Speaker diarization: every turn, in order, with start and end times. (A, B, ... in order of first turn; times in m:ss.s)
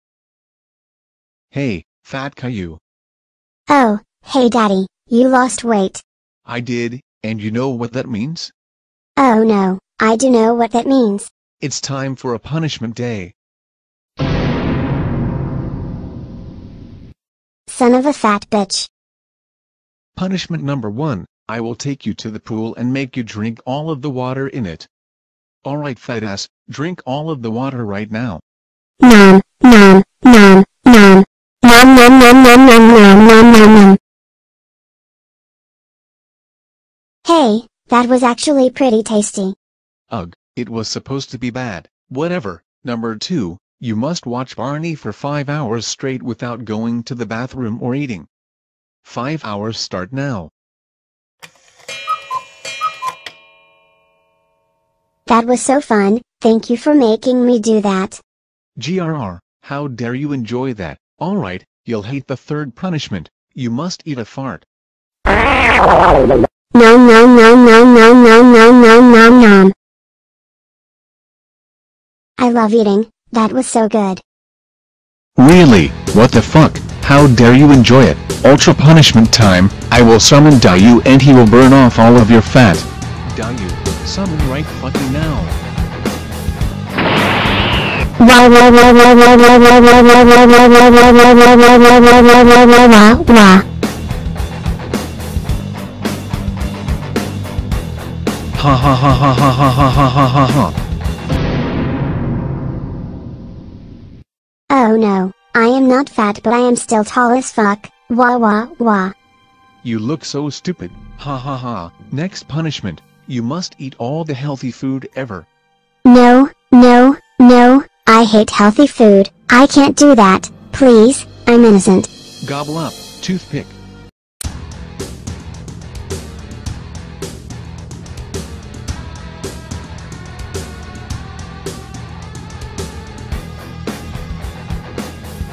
0:01.5-0:02.8 A
0:03.7-0:06.0 B
0:06.5-0:08.5 A
0:09.2-0:11.3 B
0:11.6-0:13.3 A
0:17.7-0:18.9 B
0:20.2-0:24.9 A
0:25.6-0:28.4 A
0:29.0-0:34.0 B
0:37.2-0:39.6 B
0:40.1-0:48.3 A
0:49.0-0:50.5 A
0:55.3-0:58.2 B
0:58.8-1:04.6 A
1:06.7-1:09.7 B
1:12.4-1:14.2 B
1:15.4-1:25.6 A
1:28.2-1:33.6 B
1:38.6-1:40.8 A
1:44.7-1:49.1 B
1:49.8-1:55.5 A
1:56.1-2:02.1 B
2:02.4-2:03.8 A